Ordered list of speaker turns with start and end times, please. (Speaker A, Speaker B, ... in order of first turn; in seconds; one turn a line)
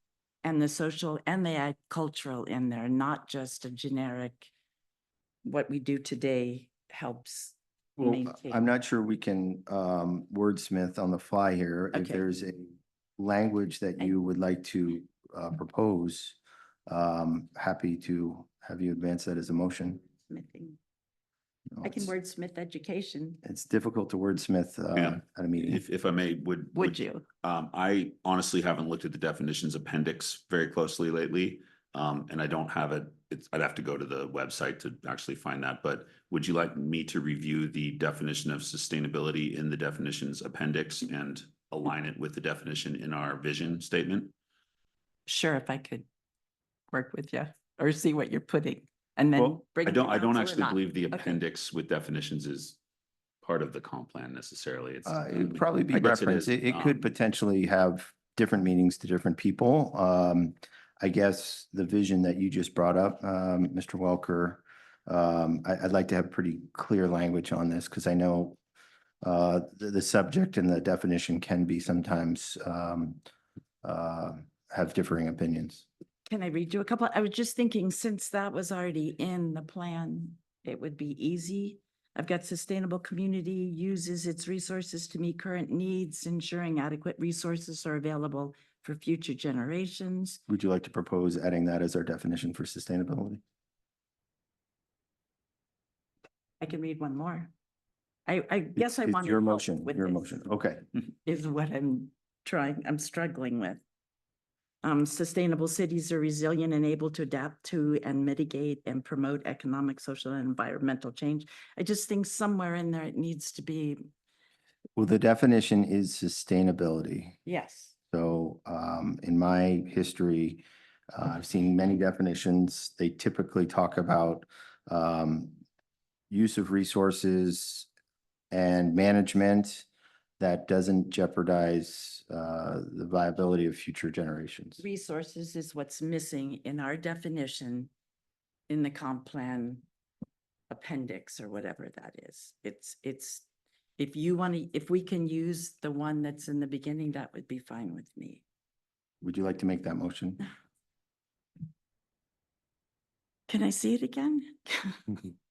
Speaker A: 0.4-4.5
Speaker A: 5.4-8.7
Speaker B: 8.0-20.0
Speaker A: 11.9-12.2
Speaker A: 20.3-20.8
Speaker B: 21.7-22.1
Speaker A: 21.8-23.4
Speaker B: 23.4-25.8
Speaker C: 24.9-44.3
Speaker A: 26.7-27.2
Speaker A: 45.3-46.1
Speaker A: 46.9-51.4
Speaker C: 49.3-52.8
Speaker C: 53.4-57.0
Speaker B: 55.0-68.6
Speaker B: 69.2-73.2
Speaker B: 73.8-75.8
Speaker A: 76.3-90.4
Speaker B: 90.5-93.4
Speaker A: 96.6-97.5
Speaker A: 98.3-100.4
Speaker B: 98.8-100.8
Speaker A: 101.2-103.8
Speaker A: 104.8-114.0
Speaker B: 115.0-117.4
Speaker A: 117.5-117.9
Speaker B: 118.1-125.6
Speaker B: 126.3-127.9
Speaker B: 128.5-129.9
Speaker B: 130.4-134.8
Speaker A: 134.8-137.9
Speaker A: 138.7-139.8
Speaker A: 140.7-143.4
Speaker A: 144.0-148.4
Speaker B: 149.2-150.4
Speaker A: 153.5-155.1